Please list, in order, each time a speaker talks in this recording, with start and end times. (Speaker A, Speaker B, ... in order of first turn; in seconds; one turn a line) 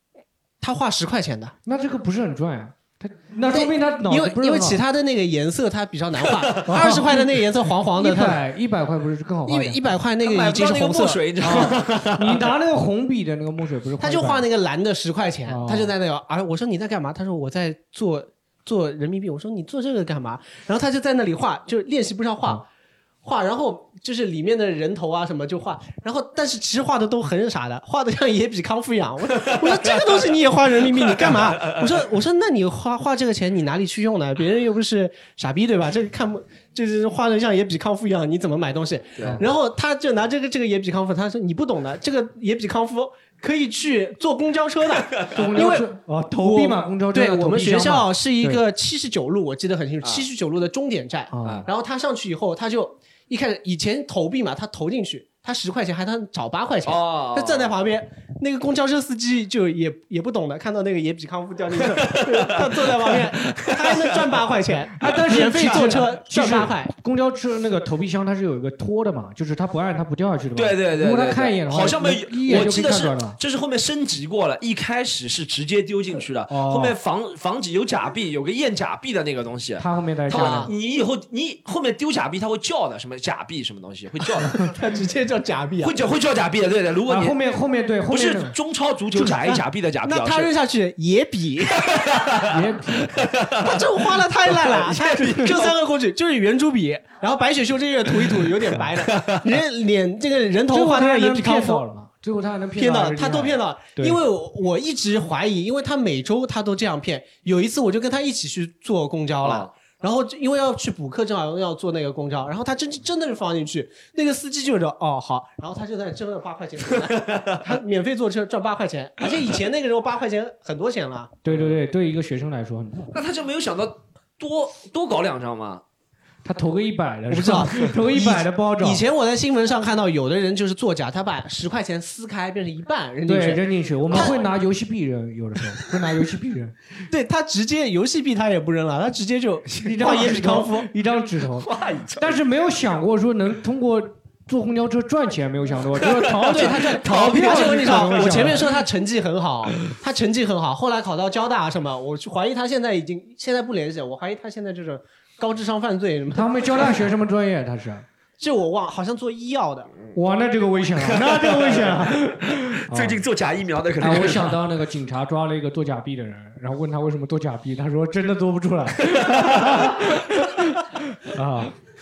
Speaker A: 0.6-1.6
Speaker B: 1.6-4.8
Speaker A: 3.5-8.4
Speaker C: 6.4-6.8
Speaker B: 6.7-9.8
Speaker A: 9.5-11.2
Speaker C: 10.2-12.5
Speaker B: 11.4-14.4
Speaker A: 14.0-22.6
Speaker B: 15.5-15.9
Speaker A: 23.2-45.9
Speaker C: 30.9-31.8
Speaker C: 39.2-39.4
Speaker B: 45.3-48.6
Speaker A: 46.4-66.9
Speaker B: 51.3-51.7
Speaker C: 56.9-57.7
Speaker C: 62.1-64.1
Speaker B: 65.0-73.4
Speaker C: 65.3-65.8
Speaker C: 70.5-84.7
Speaker B: 76.5-77.0
Speaker B: 79.8-80.7
Speaker A: 80.3-80.7
Speaker A: 84.5-85.9
Speaker C: 85.8-87.4
Speaker B: 87.1-88.6
Speaker C: 88.1-90.5
Speaker A: 90.0-91.9
Speaker C: 91.8-95.8
Speaker B: 92.5-93.2
Speaker A: 93.6-101.8
Speaker C: 98.2-98.5
Speaker C: 99.0-99.4
Speaker B: 100.7-104.2
Speaker A: 102.8-121.3
Speaker C: 109.4-109.7
Speaker C: 117.2-117.6
Speaker B: 121.5-123.1
Speaker C: 121.5-121.8
Speaker C: 123.1-125.8
Speaker B: 126.4-129.0
Speaker A: 127.3-134.4
Speaker B: 133.3-136.8
Speaker A: 137.1-140.9
Speaker B: 139.8-148.8
Speaker C: 141.6-142.4
Speaker C: 146.1-148.8
Speaker A: 146.5-156.7
Speaker B: 156.3-158.1
Speaker A: 158.4-159.9
Speaker B: 160.1-163.2
Speaker C: 161.0-164.6
Speaker B: 164.0-171.8
Speaker C: 169.0-170.0